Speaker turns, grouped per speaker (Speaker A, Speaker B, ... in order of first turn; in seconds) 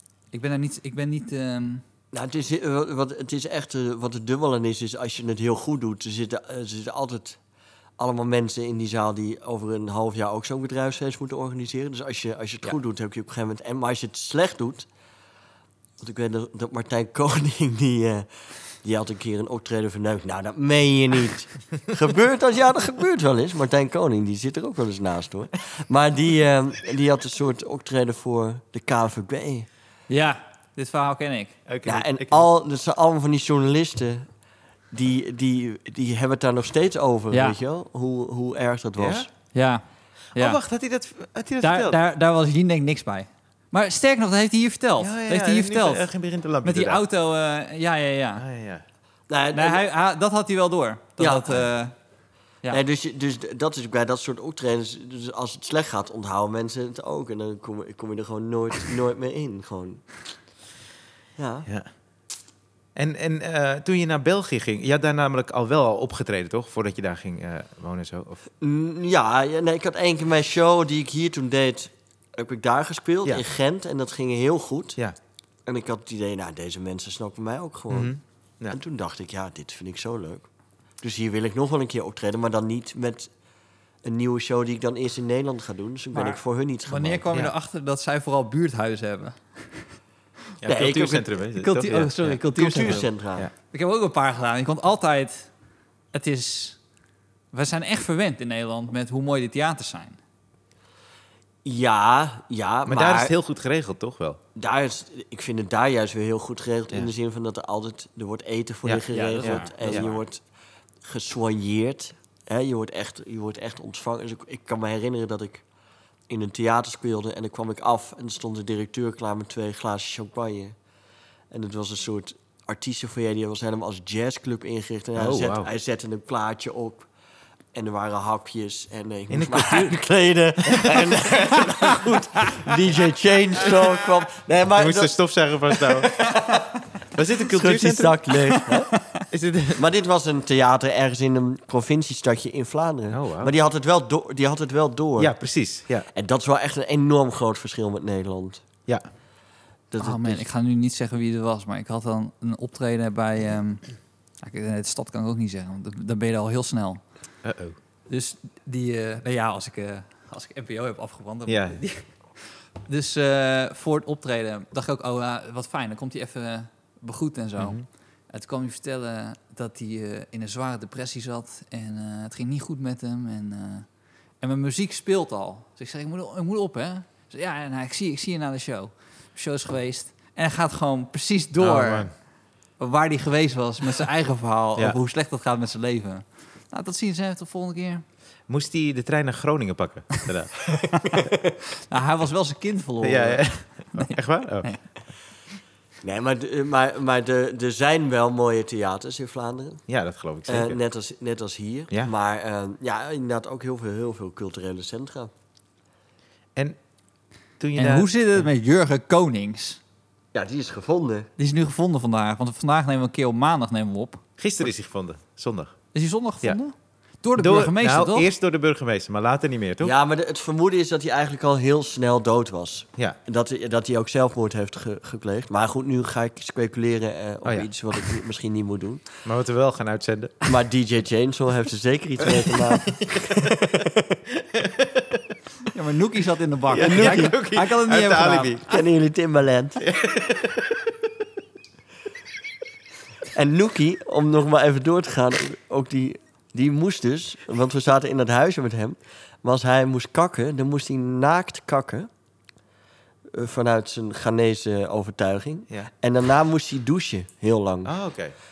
Speaker A: 0.3-1.8, 30.1-31.6, 39.5-39.8, 41.6-46.0, 46.6-48.4, 49.5-51.9, 86.1-89.8, 91.6-93.1, 93.7-95.5, 96.1-96.8, 97.5-100.2, 109.1-110.1, 138.6-139.2, 150.0-153.9, 154.4-157.0, 158.1-182.2, 182.8-188.0, 190.9-191.2, 191.9-194.8, 207.8-209.8, 211.4-214.2, 215.9-218.3, 235.7-238.6
Speaker B: 2.1-7.4, 8.0-14.9, 16.0-18.3, 18.8-29.7, 31.8-34.3, 34.9-39.3, 49.3-49.9, 51.2-51.6, 52.7-60.0, 61.4-61.7, 68.6-75.0, 75.7-78.1, 78.7-80.5, 81.0-83.3, 84.0-87.3, 90.7-91.3, 92.5-93.5, 101.6-103.3, 104.5-110.4, 111.0-115.6, 116.3-120.8, 121.5-127.1, 127.7-135.2, 135.7-136.7, 137.4-138.9, 139.8-145.3, 146.1-148.6, 149.9-150.4, 196.0-199.8, 200.5-205.3, 210.3-211.3, 219.8-229.1, 230.4-234.2, 236.7-237.3, 238.6-239.8, 243.3-252.1, 253.3-257.9
Speaker C: 31.7-32.5, 39.0-39.3, 40.3-42.0, 45.0-47.0, 48.4-48.8, 62.9-68.4, 77.9-78.8, 90.6-93.5, 102.8-104.4, 108.8-110.1, 125.2-125.7, 129.3-129.9, 130.6-131.6, 134.8-136.5, 137.1-138.2, 139.3-139.8, 143.1-143.5, 145.2-146.1, 157.4-157.8, 161.5-161.8, 167.6-167.8, 181.6-182.1, 188.5-190.7, 193.0-194.7, 199.9-200.8, 207.6-208.4, 214.4-215.8, 217.4-219.9, 229.2-230.5, 232.2-233.5, 234.4-235.2, 236.7-238.7, 239.8-240.8, 257.8-258.3